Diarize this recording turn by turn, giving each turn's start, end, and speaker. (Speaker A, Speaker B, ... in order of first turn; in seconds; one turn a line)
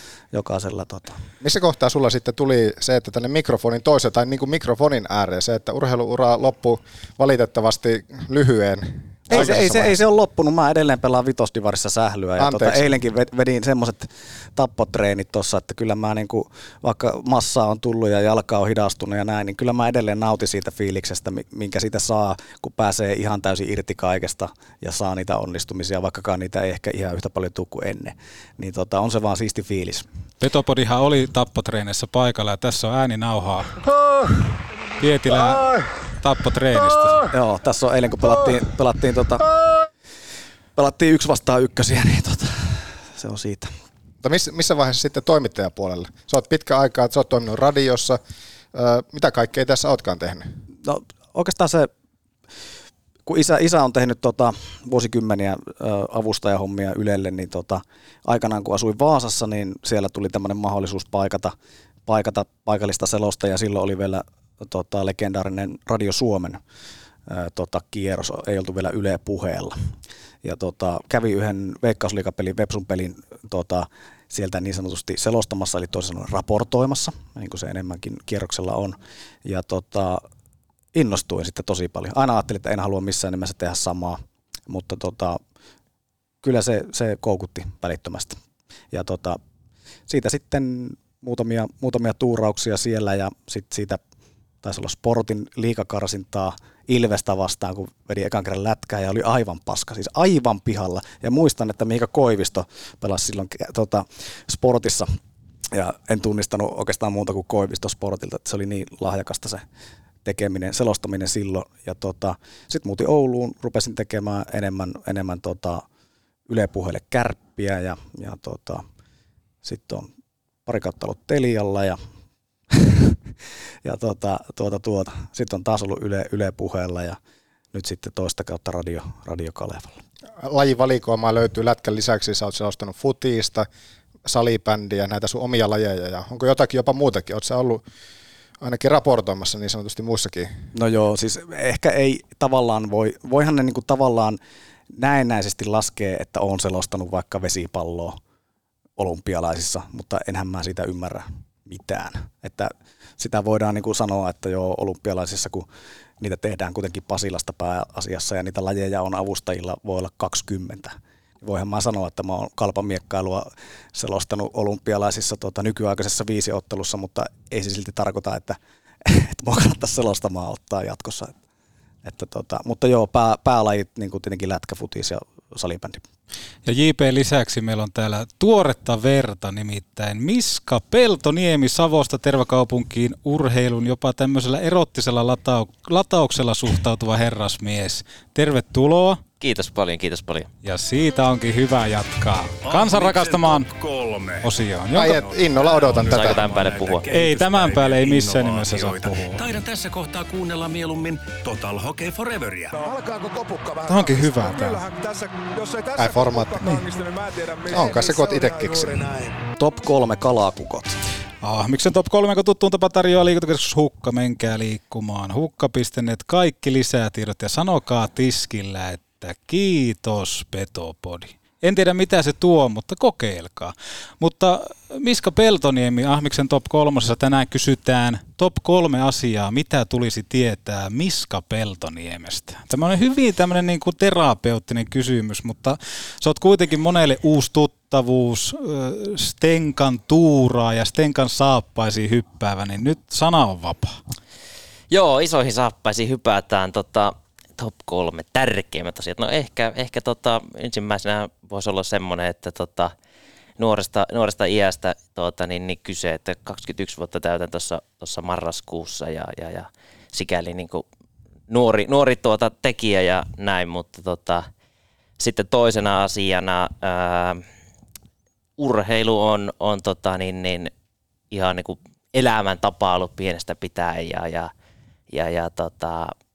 Speaker A: 0.3-1.2
Speaker B: 1.4-10.0
Speaker A: 9.3-30.0
Speaker B: 12.4-12.8
Speaker C: 30.4-33.7
Speaker C: 35.0-37.2
Speaker A: 37.3-39.5
Speaker A: 40.8-43.7
Speaker B: 44.2-48.2
Speaker B: 48.7-50.5
Speaker A: 50.8-51.9
Speaker A: 53.3-61.5
Speaker A: 62.1-66.6
Speaker A: 67.3-69.8
Speaker A: 70.4-80.2
Speaker A: 80.9-85.4
Speaker A: 86.4-88.4
Speaker A: 88.9-89.4
Speaker A: 90.1-94.0
Speaker A: 94.6-105.1
Speaker A: 105.7-109.6
Speaker A: 110.2-115.8
Speaker A: 116.5-118.8
Speaker A: 119.6-120.1
Speaker A: 120.7-122.0
Speaker A: 122.7-123.2
Speaker A: 123.8-127.2
Speaker A: 127.7-130.0
Speaker B: 130.4-133.7
Speaker B: 134.2-137.8
Speaker B: 138.6-140.5
Speaker A: 140.7-144.4
Speaker A: 144.9-148.2
Speaker A: 149.0-155.7
Speaker A: 156.2-171.3
Speaker A: 172.0-176.0
Speaker C: 176.7-189.2
Speaker D: 189.4-190.5
Speaker C: 190.6-193.7
Speaker E: 192.6-194.5
Speaker C: 194.4-195.2
Speaker B: 194.9-196.5
Speaker E: 195.6-202.7
Speaker D: 196.1-197.1
Speaker C: 197.1-199.4
Speaker F: 202.7-209.3
Speaker C: 203.8-204.8
Speaker B: 206.0-206.6
Speaker B: 207.7-209.0
Speaker A: 209.6-211.0
Speaker C: 211.4-244.0
Speaker D: 244.9-252.9
Speaker D: 253.6-260.9
Speaker D: 261.5-264.4
Speaker D: 265.2-267.4
Speaker D: 268.6-270.7
Speaker D: 271.3-274.5
Speaker D: 275.1-276.1